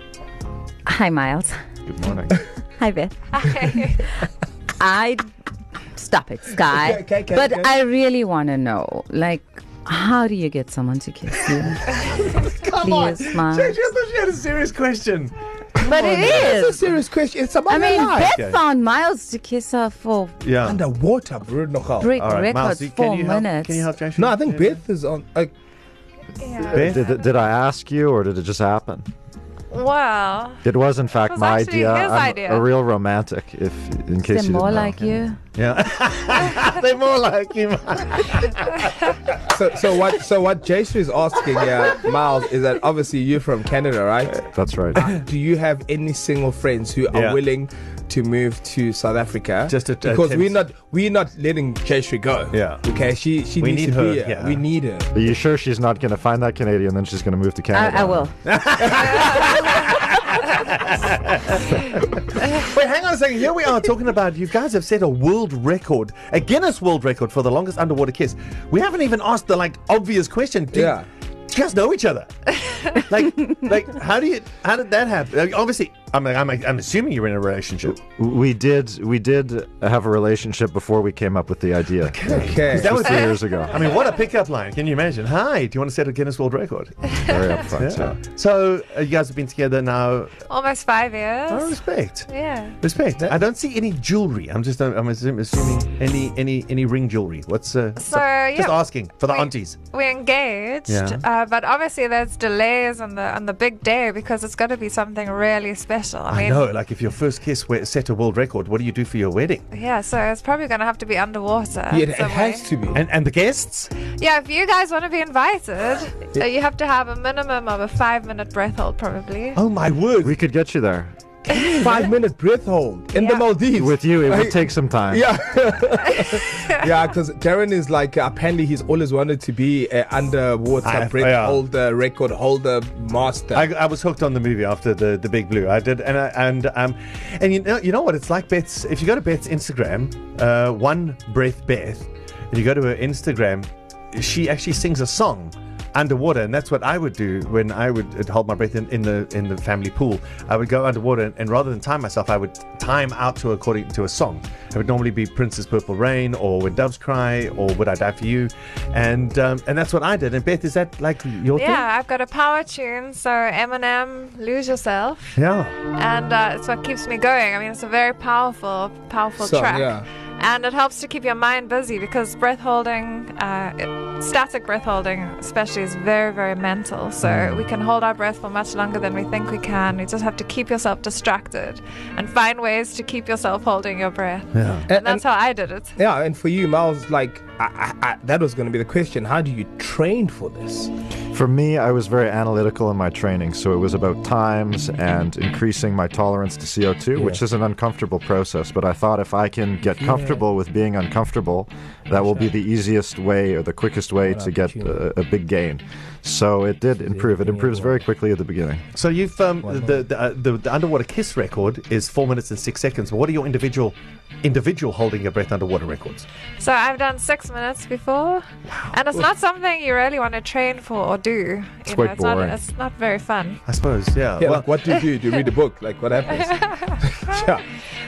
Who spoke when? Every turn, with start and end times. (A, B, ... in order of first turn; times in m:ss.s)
0:00.8-0:01.6 A
0:01.8-0:02.4 B
0:02.8-0:03.2 A
0:03.3-0:04.1 C
0:04.8-0:05.2 A
0:05.9-0:11.9 A
0:06.5-0:07.8 D
0:12.2-0:15.3 E
0:12.7-0:13.8 A
0:15.8-0:18.3 D
0:15.8-0:17.0 A
0:17.7-0:20.4 A
0:18.3-0:18.6 E
0:20.4-0:20.8 E
0:20.6-0:22.2 D
0:22.0-0:23.9 A
0:22.2-0:24.8 E
0:24.1-0:25.5 D
0:26.4-0:27.2 C
0:26.7-0:27.0 E
0:26.7-0:29.1 B
0:29.7-0:30.6 C
0:30.6-0:35.1 B
0:31.2-0:32.7 C
0:34.2-0:35.4 A
0:35.5-0:38.9 E
0:39.5-0:55.1 D
0:44.5-0:45.1 B
0:47.1-0:47.4 E
0:49.7-0:50.6 E
0:52.5-0:52.8 E
0:53.6-0:54.6 E
0:55.1-0:58.2 B
0:57.7-0:58.3 A
0:58.4-1:11.0 E
1:10.7-1:11.1 D
1:11.5-1:18.0 E
1:17.8-1:23.8 B
1:22.1-1:27.0 E
1:22.3-1:23.0 D
1:27.2-1:28.2 B
1:27.7-1:30.4 E
1:30.5-1:31.8 C
1:31.5-1:39.8 E
1:32.3-1:32.8 C
1:38.0-1:46.6 C
1:40.9-1:41.2 E
1:46.3-1:49.7 E
1:49.7-1:52.7 C
1:51.9-1:53.0 D
1:52.9-1:53.9 E
1:54.2-1:59.6 C
1:59.5-2:00.4 E
2:00.2-2:01.1 B
2:01.4-2:01.9 E
2:01.7-2:13.7 D
2:03.1-2:03.4 C
2:03.8-2:05.2 B
2:10.8-2:11.6 E
2:13.5-2:41.8 E
2:41.5-2:45.4 C
2:45.4-2:45.8 E
2:45.9-3:05.9 C
2:49.4-2:50.0 D
2:57.2-2:57.6 E
3:04.5-3:04.9 E
3:04.9-3:05.2 D
3:06.0-3:10.9 D
3:11.3-3:28.8 B
3:17.2-3:17.4 D
3:20.0-3:20.4 D
3:22.1-3:22.6 D
3:24.2-3:25.0 D
3:27.0-3:28.0 D
3:28.9-3:36.3 E
3:29.6-3:30.0 D
3:36.6-3:43.6 C
3:41.8-3:42.6 B
3:43.7-3:44.9 E
3:44.4-3:47.6 D
3:46.4-3:47.0 C